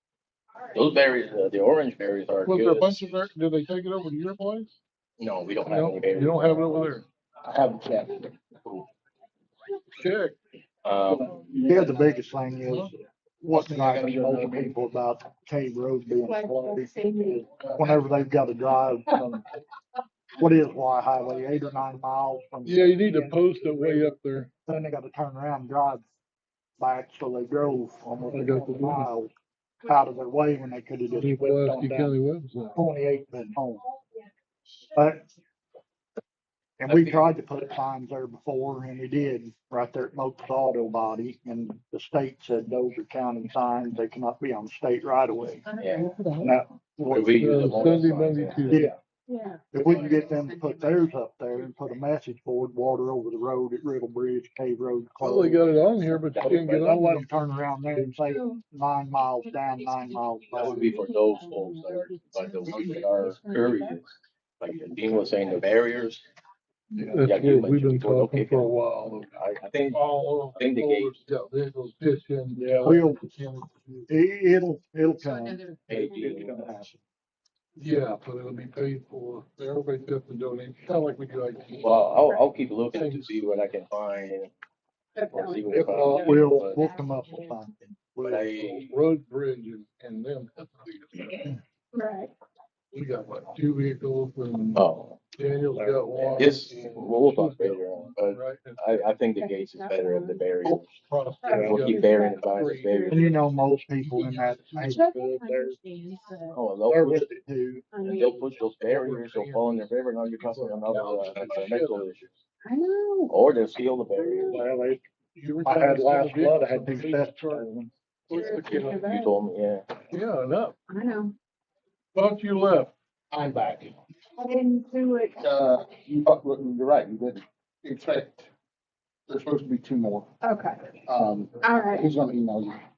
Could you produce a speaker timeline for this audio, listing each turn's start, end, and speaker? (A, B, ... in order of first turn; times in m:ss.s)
0:00.7-0:03.0 A
0:02.4-0:04.8 B
0:05.2-0:06.9 A
0:05.6-0:07.0 B
0:07.4-0:08.3 C
0:08.6-0:08.9 A
0:09.9-0:10.4 B
0:10.8-0:11.3 A
0:11.1-0:11.9 B
0:11.6-0:19.4 D
0:13.5-0:14.7 A
0:16.2-0:17.5 E
0:20.4-0:24.1 D
0:22.6-0:24.5 B
0:24.7-0:26.0 D
0:26.8-0:29.3 D
0:28.2-0:29.1 B
0:29.8-0:32.2 D
0:31.1-0:32.8 B
0:32.7-0:33.8 D
0:34.9-0:35.2 D
0:36.8-0:45.7 D
0:36.9-0:37.3 A
0:45.6-0:46.6 E
0:45.8-0:46.1 A
0:46.4-0:47.5 D
0:47.1-0:48.9 A
0:47.4-0:48.9 B
0:48.7-0:49.0 D
0:49.3-0:51.1 E
0:49.7-1:00.9 D
0:49.8-0:50.3 A
0:55.2-0:57.3 B
0:56.3-0:56.9 A
0:58.2-0:58.6 E
0:59.4-1:04.0 E
1:00.6-1:06.2 A
1:02.7-1:03.1 B
1:07.0-1:09.4 B
1:07.1-1:08.7 A
1:09.4-1:10.0 A
1:09.9-1:13.0 B
1:10.5-1:11.1 A
1:12.6-1:17.0 D
1:15.2-1:16.3 E
1:15.9-1:16.7 A
1:17.8-1:22.2 B
1:21.8-1:24.5 A
1:22.9-1:23.4 B
1:25.2-1:27.6 E
1:25.3-1:26.8 A
1:25.7-1:28.5 D
1:28.2-1:28.9 A
1:28.6-1:31.6 B
1:31.3-1:32.3 E
1:32.9-1:39.1 B
1:34.7-1:35.2 A
1:36.0-1:41.0 A
1:39.4-1:40.5 E
1:40.6-1:43.4 B
1:41.4-1:42.5 E
1:41.5-1:43.3 A
1:43.1-1:45.8 D
1:44.0-1:45.1 B
1:44.8-1:46.6 E
1:46.5-1:47.3 A
1:46.9-1:47.8 D
1:47.9-1:48.6 E
1:48.0-1:52.3 A
1:48.8-1:52.0 B
1:52.6-1:53.5 E
1:53.3-1:54.6 A
1:54.2-1:54.6 E
1:54.4-1:55.0 D
1:55.3-1:57.7 B
1:55.6-1:57.9 D
1:58.3-1:59.1 B
1:58.3-1:59.4 E
1:59.0-2:00.0 A
2:00.1-2:00.8 B
2:00.9-2:01.3 E
2:02.1-2:02.9 B
2:03.3-2:03.8 C
2:04.4-2:05.4 E
2:05.4-2:08.4 C
2:09.3-2:10.2 C
2:10.4-2:11.0 E
2:11.0-2:12.6 C
2:11.6-2:12.1 E